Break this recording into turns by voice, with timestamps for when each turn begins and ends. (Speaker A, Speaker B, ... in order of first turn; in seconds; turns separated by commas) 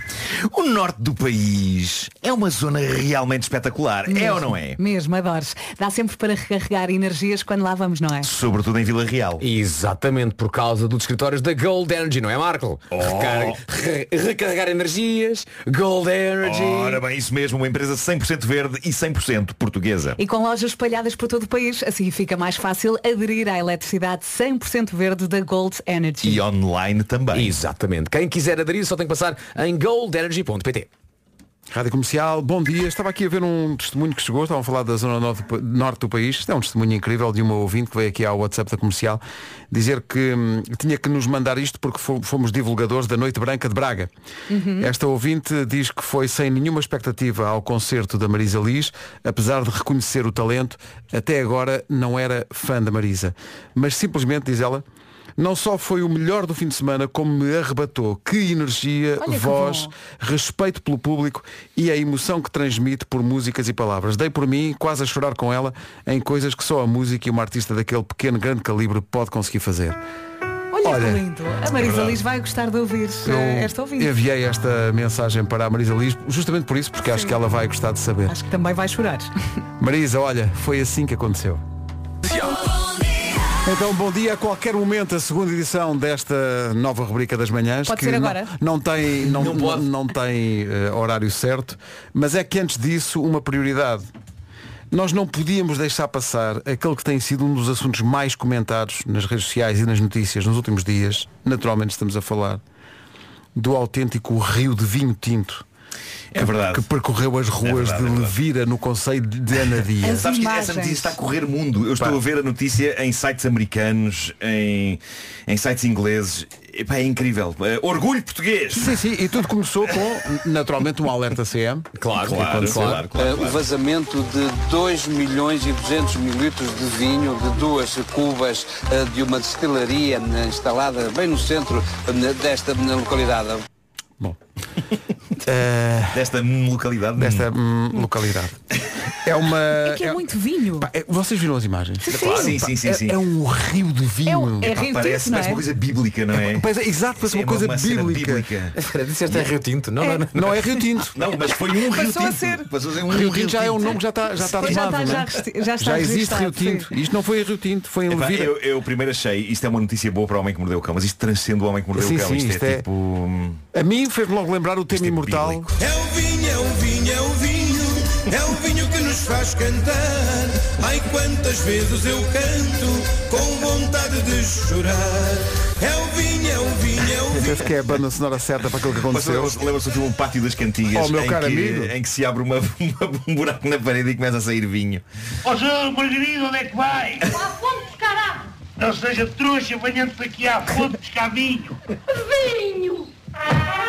Speaker A: 0.5-4.8, Speaker B: 4.1-8.3, Speaker A: 8.2-9.4, Speaker C: 9.4-17.0, Speaker A: 12.9-13.6, Speaker A: 16.4-20.2, Speaker B: 20.2-26.4, Speaker A: 26.2-27.6, Speaker C: 27.3-30.9, Speaker D: 31.7-44.1, Speaker B: 44.5-44.9, Speaker D: 44.8-54.8, Speaker D: 55.4-70.0, Speaker B: 59.2-59.9, Speaker B: 70.7-74.1, Speaker D: 70.8-71.2, Speaker A: 71.8-72.2, Speaker D: 73.2-78.4, Speaker B: 78.3-79.3, Speaker D: 79.8-81.6, Speaker D: 83.7-94.0, Speaker B: 87.9-88.5, Speaker C: 89.2-89.8, Speaker D: 94.9-102.6, Speaker D: 103.6-105.6, Speaker A: 106.3-106.9, Speaker D: 106.4-110.2, Speaker A: 107.6-108.4, Speaker B: 110.0-111.2, Speaker A: 110.1-119.0, Speaker D: 118.8-123.1, Speaker C: 122.0-123.0, Speaker A: 122.2-123.7, Speaker E: 123.2-133.7, Speaker D: 135.4-136.3, Speaker A: 136.1-137.5, Speaker D: 137.2-138.6, Speaker D: 139.2-140.2, Speaker B: 139.8-140.9, Speaker D: 140.8-144.8, Speaker B: 142.0-143.0, Speaker A: 142.1-143.2, Speaker B: 144.2-145.7, Speaker A: 144.6-148.8, Speaker D: 146.3-148.5, Speaker C: 148.8-150.6, Speaker B: 150.0-150.3, Speaker D: 150.3-151.2, Speaker A: 151.1-154.0, Speaker B: 151.6-152.7, Speaker D: 153.1-155.3, Speaker B: 154.4-156.9, Speaker D: 155.8-158.5, Speaker A: 158.1-163.6, Speaker D: 161.9-162.8, Speaker D: 163.7-165.7, Speaker A: 164.9-165.8, Speaker F: 165.7-177.6, Speaker D: 177.3-179.6, Speaker A: 179.0-185.0, Speaker D: 180.9-181.9, Speaker G: 185.4-187.3, Speaker G: 188.8-191.8, Speaker B: 192.5-193.0